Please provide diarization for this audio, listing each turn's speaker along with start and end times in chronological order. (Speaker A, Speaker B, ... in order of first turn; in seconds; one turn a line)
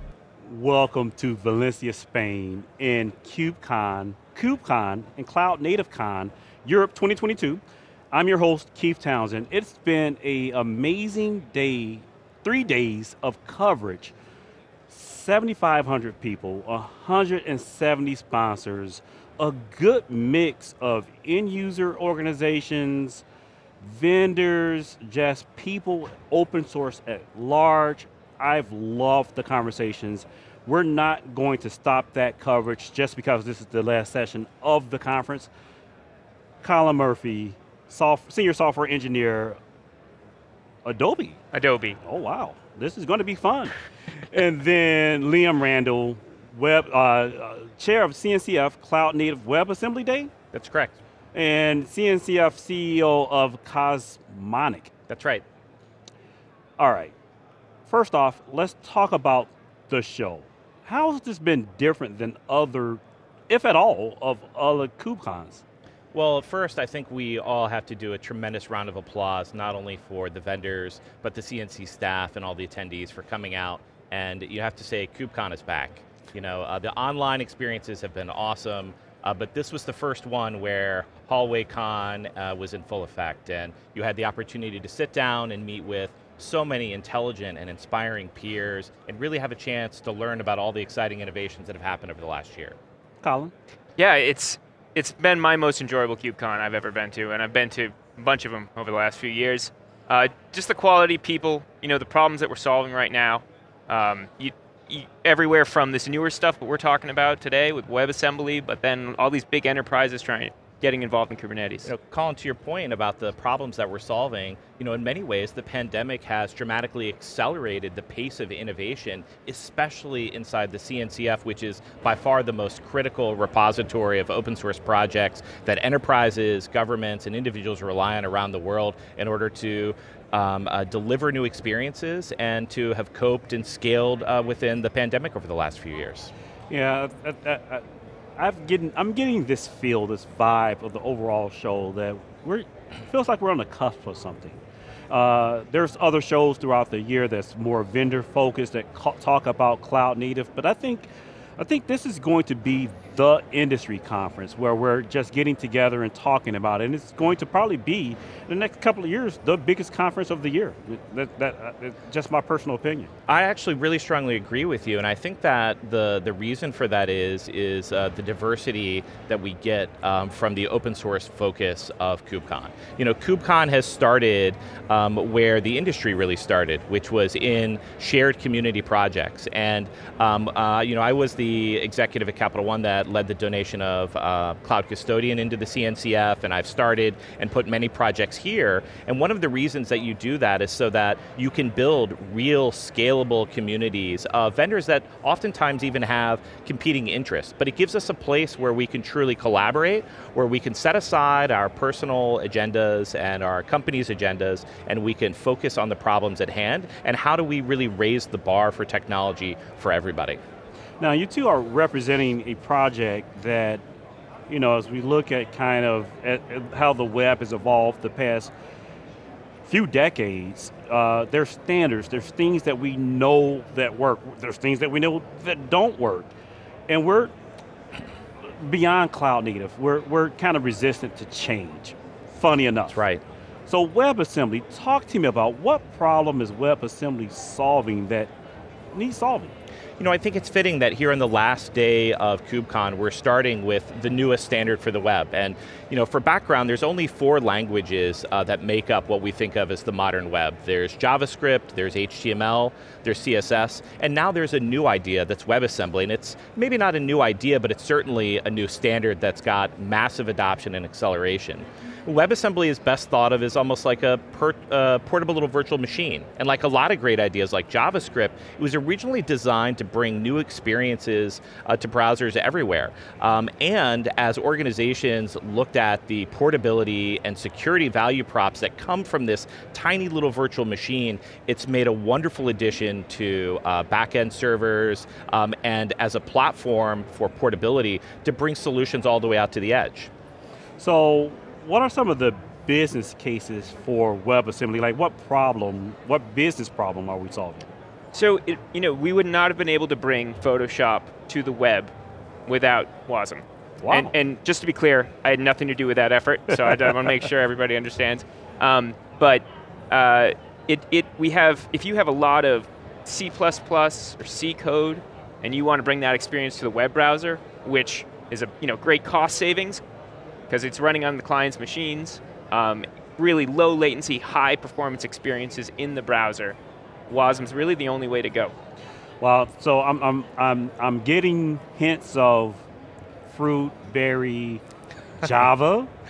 Speaker A: 0.4-14.1
Speaker A: 14.9-23.2
Speaker A: 23.8-35.5
Speaker A: 36.6-39.6
Speaker A: 40.9-41.4
Speaker B: 41.5-42.0
Speaker A: 42.0-43.8
Speaker A: 44.3-50.3
Speaker C: 50.5-51.0
Speaker A: 51.3-54.9
Speaker C: 55.1-55.4
Speaker A: 56.8-57.1
Speaker A: 57.9-65.6
Speaker C: 66.1-92.8
Speaker A: 93.2-93.5
Speaker B: 94.0-111.9
Speaker C: 111.9-136.3
Speaker A: 136.7-137.8
Speaker A: 138.4-144.6
Speaker A: 145.1-163.1
Speaker C: 163.3-210.4
Speaker A: 211.0-213.8
Speaker A: 214.5-218.5
Speaker A: 219.6-226.3
Speaker A: 226.9-227.3
Speaker A: 228.5-233.1
Speaker C: 232.9-233.2
Speaker A: 233.7-238.3
Speaker A: 238.9-239.6
Speaker C: 240.0-290.1
Speaker A: 290.8-297.7
Speaker B: 298.1-301.9
Speaker B: 302.5-319.8
Speaker A: 303.8-304.2
Speaker B: 320.5-326.6
Speaker B: 327.1-328.5
Speaker A: 329.2-332.7
Speaker A: 333.3-334.6
Speaker A: 335.2-335.9